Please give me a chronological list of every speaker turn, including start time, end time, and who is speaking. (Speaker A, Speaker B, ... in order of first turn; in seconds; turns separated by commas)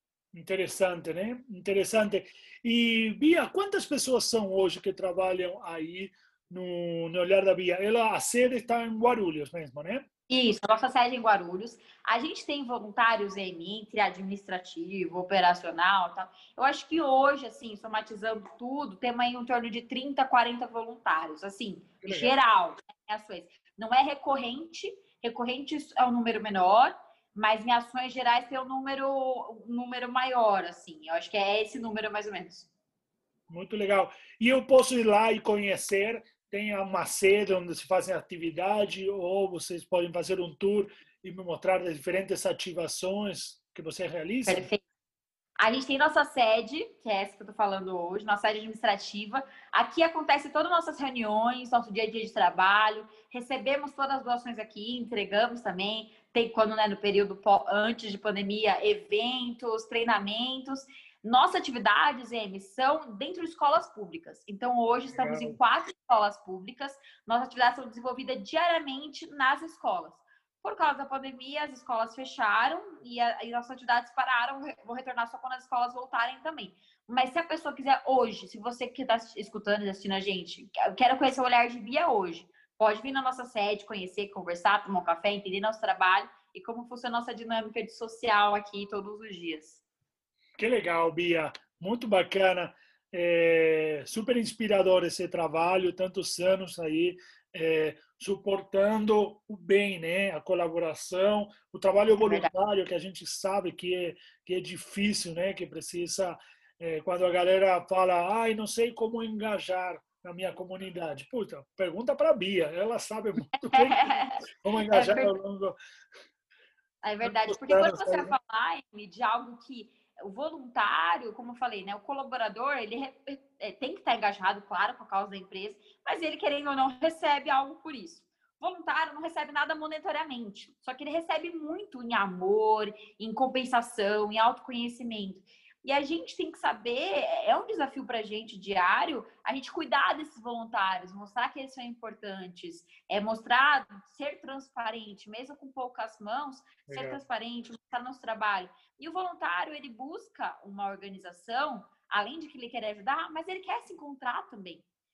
Speaker A: 0.3-10.1, Speaker B: 10.3-32.7, Speaker A: 22.0-22.4, Speaker A: 33.5-44.7, Speaker B: 44.5-44.8, Speaker B: 45.6-89.8, Speaker A: 65.1-65.6, Speaker A: 90.6-115.8, Speaker B: 102.2-102.5, Speaker B: 113.6-115.3, Speaker B: 117.0-154.8, Speaker A: 117.2-118.3, Speaker A: 146.9-147.2